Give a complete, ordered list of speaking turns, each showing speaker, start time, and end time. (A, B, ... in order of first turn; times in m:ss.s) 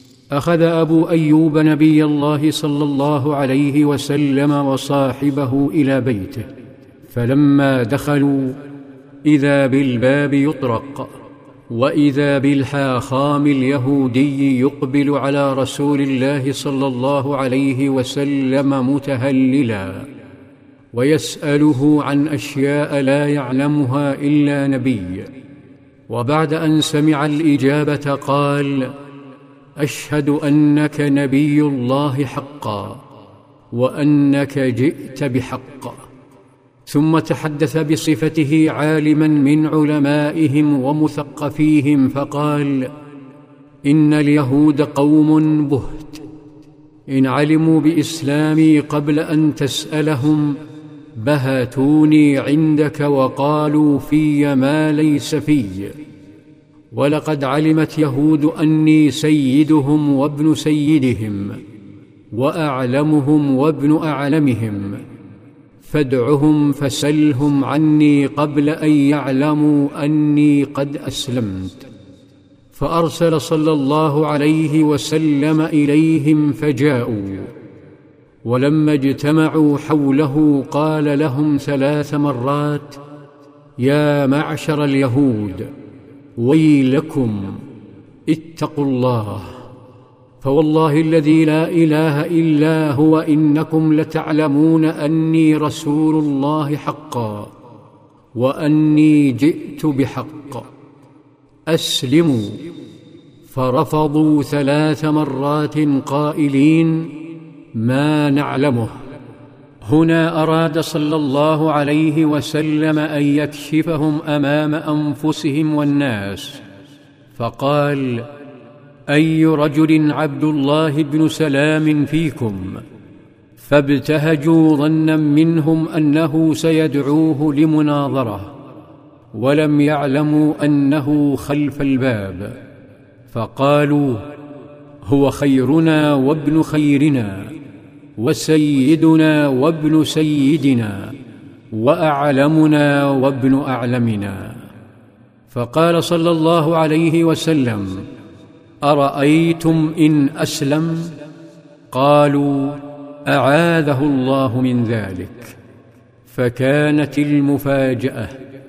0:00.3-0:06.5 A
0:07.1-0:08.6 A
0:09.2-0:11.1 A
0:11.7-0:20.1 A
0:20.9-0:25.3 A
0:26.1-0:29.0 A
0:29.8-0:33.0 A
0:33.7-0:36.0 A
0:36.8-0:42.9 A
0:43.8-0:46.2 A
0:47.1-0:50.6 A
0:51.2-0:56.0 A
0:56.9-1:01.6 A
1:02.3-1:05.0 A
1:05.8-1:11.9 A
1:12.7-1:17.5 A
1:18.4-1:23.0 A
1:23.8-1:25.7 A
1:26.4-1:27.6 A
1:28.3-1:29.6 A
1:30.4-1:37.5 A
1:38.4-1:40.7 A
1:41.7-1:42.7 A
1:43.5-1:47.2 A
1:47.7-1:49.0 A
1:49.8-1:56.6 A
1:57.3-1:58.3 A
1:59.1-2:02.8 A
2:03.6-2:08.5 A
2:09.3-2:12.6 A
2:13.3-2:14.3 A
2:15.0-2:17.6 A
2:18.2-2:21.2 A
2:21.7-2:24.7 A
2:25.5-2:28.0 A
2:28.8-2:31.1 A
2:31.9-2:35.5 A
2:36.3-2:38.4 A